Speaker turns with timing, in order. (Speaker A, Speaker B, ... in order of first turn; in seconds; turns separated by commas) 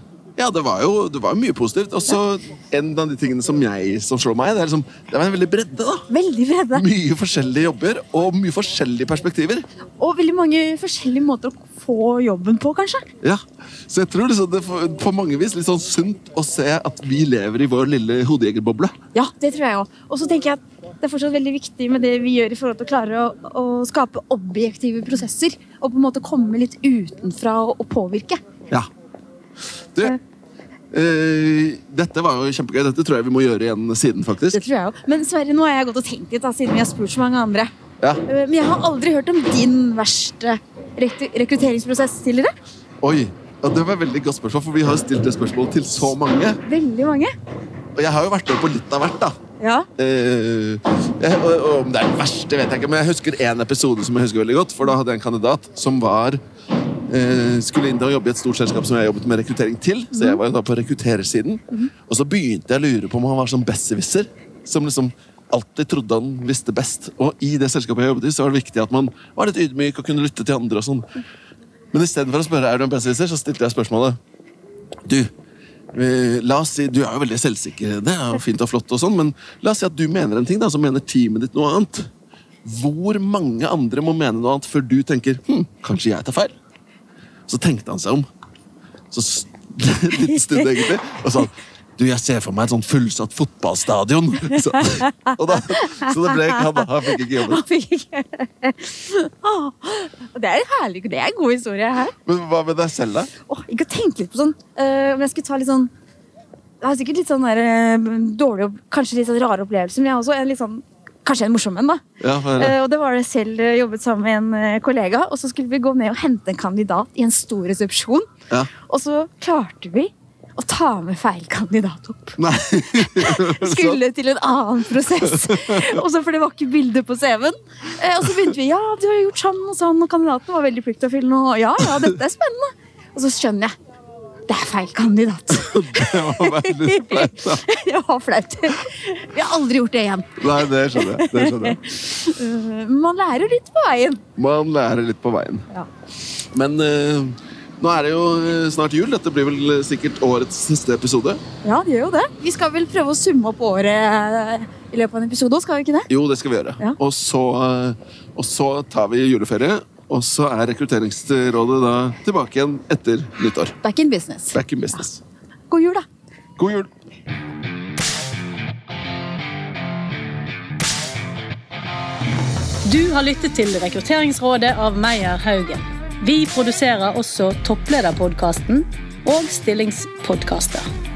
Speaker A: 0.3-6.1, Speaker B: 6.1-6.8, Speaker A: 6.7-9.7, Speaker B: 10.0-13.0, Speaker A: 13.2-18.9, Speaker B: 19.1-28.4, Speaker A: 30.9-34.6, Speaker B: 34.5-37.7, Speaker B: 38.2-42.5, Speaker A: 43.0-46.6, Speaker B: 46.6-47.3, Speaker A: 48.0-49.4, Speaker B: 49.6-49.9, Speaker A: 50.0-56.4, Speaker A: 57.1-71.1, Speaker A: 71.9-74.2, Speaker A: 75.9-82.1, Speaker A: 82.6-86.5, Speaker A: 87.5-88.2, Speaker A: 89.1-97.6, Speaker B: 90.2-90.7, Speaker B: 95.7-96.8, Speaker B: 97.4-102.1, Speaker A: 102.2-103.3, Speaker B: 103.5-105.9, Speaker B: 106.8-112.0, Speaker A: 112.2-112.8, Speaker B: 112.6-118.3, Speaker B: 118.9-122.4, Speaker A: 122.4-124.0, Speaker B: 123.0-133.7, Speaker A: 125.1-126.0, Speaker B: 134.5-144.2, Speaker A: 135.6-137.7, Speaker A: 140.4-141.8, Speaker A: 144.3-145.7, Speaker A: 146.5-151.4, Speaker B: 151.6-156.1, Speaker A: 156.1-163.8, Speaker B: 163.8-164.6, Speaker A: 164.5-165.2, Speaker B: 165.7-166.0, Speaker A: 166.6-166.9, Speaker C: 172.8-180.9